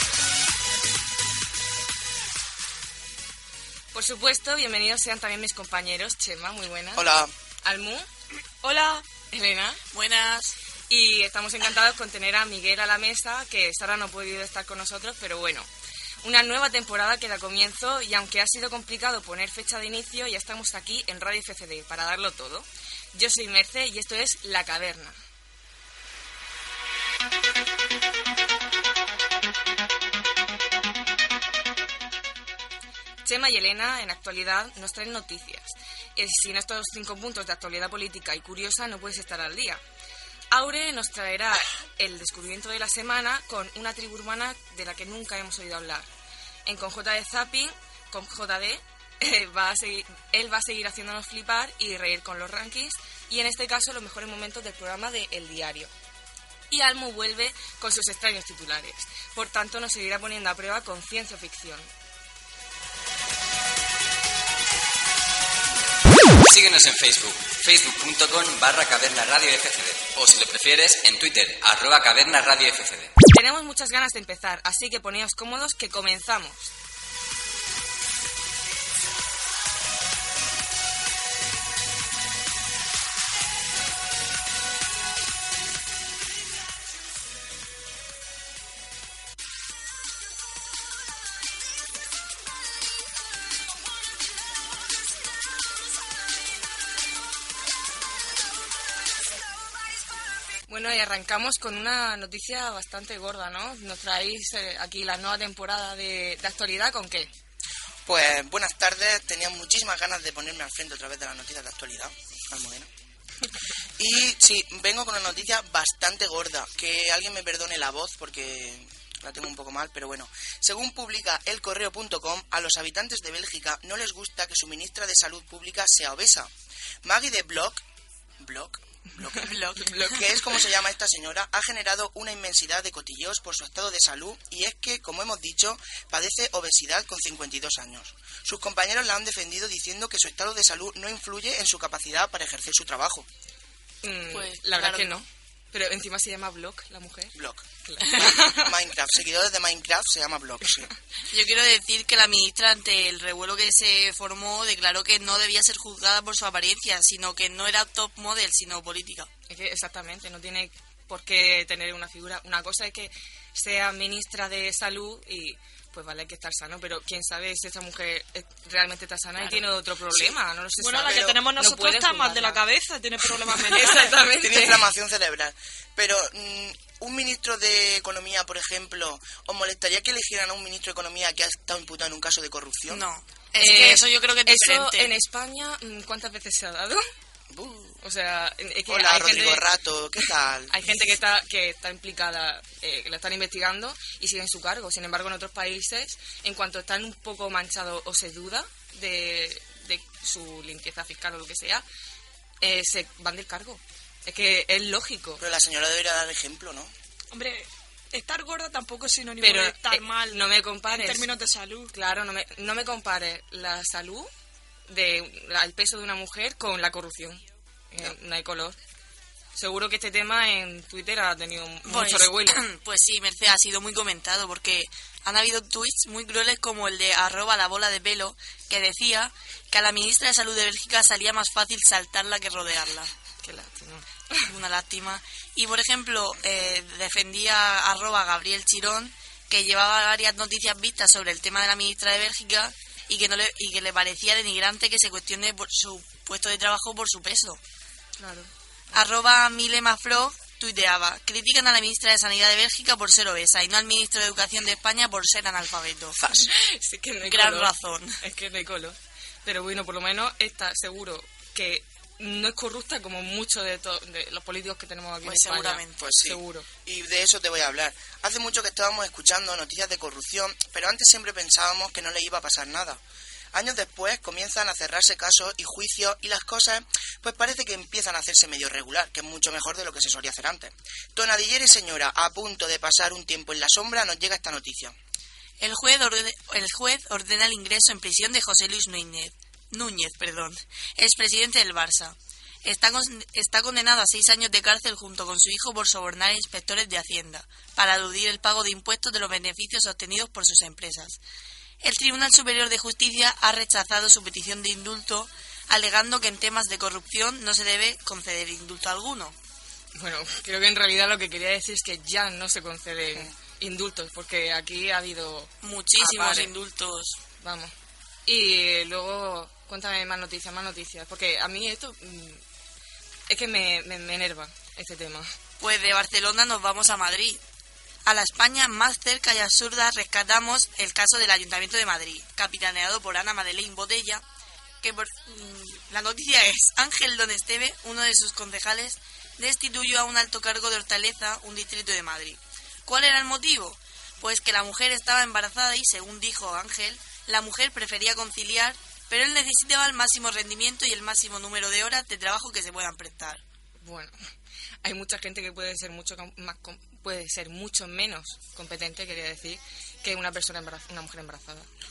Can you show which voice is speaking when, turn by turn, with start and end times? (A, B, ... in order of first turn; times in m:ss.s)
0:03.9-0:07.1 A
0:07.0-0:07.3 B
0:07.6-0:08.1 A
0:08.6-0:09.0 C
0:09.3-0:09.8 A
0:09.9-0:10.5 D
0:10.9-0:15.7 A
0:16.2-0:25.2 A
0:33.2-0:39.8 A
0:40.5-0:46.1 A
0:46.7-0:55.9 A
0:56.7-1:01.9 A
1:06.4-1:13.1 E
1:13.3-1:16.7 A
1:40.7-1:47.3 A
1:48.1-1:52.9 B
1:54.0-2:06.5 B
2:07.0-2:07.8 B
2:08.4-2:23.3 B
2:09.4-2:10.1 D
2:09.8-2:10.3 A
2:24.0-2:27.3 A
2:24.3-2:25.2 D
2:27.4-2:27.6 B
2:27.8-2:28.7 A
2:28.0-2:28.3 D
2:28.2-2:30.9 B
2:31.3-2:39.3 D
2:39.5-2:52.6 A
2:50.8-2:54.2 C
2:53.7-2:54.9 A
2:54.3-3:03.0 B
3:02.9-3:05.1 D
3:03.6-3:07.0 A
3:07.5-3:08.0 B
3:08.0-3:09.6 A
3:08.9-3:10.7 B
3:10.7-3:21.8 A
3:22.6-3:25.4 A
3:25.4-3:26.9 B
3:27.3-3:31.9 C
3:29.4-3:31.3 A
3:31.9-3:34.3 A
3:34.9-3:38.8 A
3:39.6-3:42.6 A
3:41.9-3:53.1 D
3:53.4-3:54.5 A
3:54.4-4:07.6 D
4:08.2-4:08.5 A
4:08.9-4:16.2 D
4:16.2-4:16.5 B
4:16.4-4:26.7 A
4:17.2-4:18.2 D
4:25.2-4:26.0 D
4:26.0-4:33.0 B
4:33.5-4:45.0 B
4:45.6-5:01.2 D
5:01.8-5:09.4 D
5:10.0-5:16.5 A
5:15.6-5:17.2 D
5:17.4-5:17.7 A
5:18.3-5:22.4 A
5:23.3-5:25.3 A
5:25.6-5:27.4 D
5:28.1-5:34.2 D
5:34.8-5:53.4 D
5:53.8-5:54.1 A
5:54.8-6:01.7 A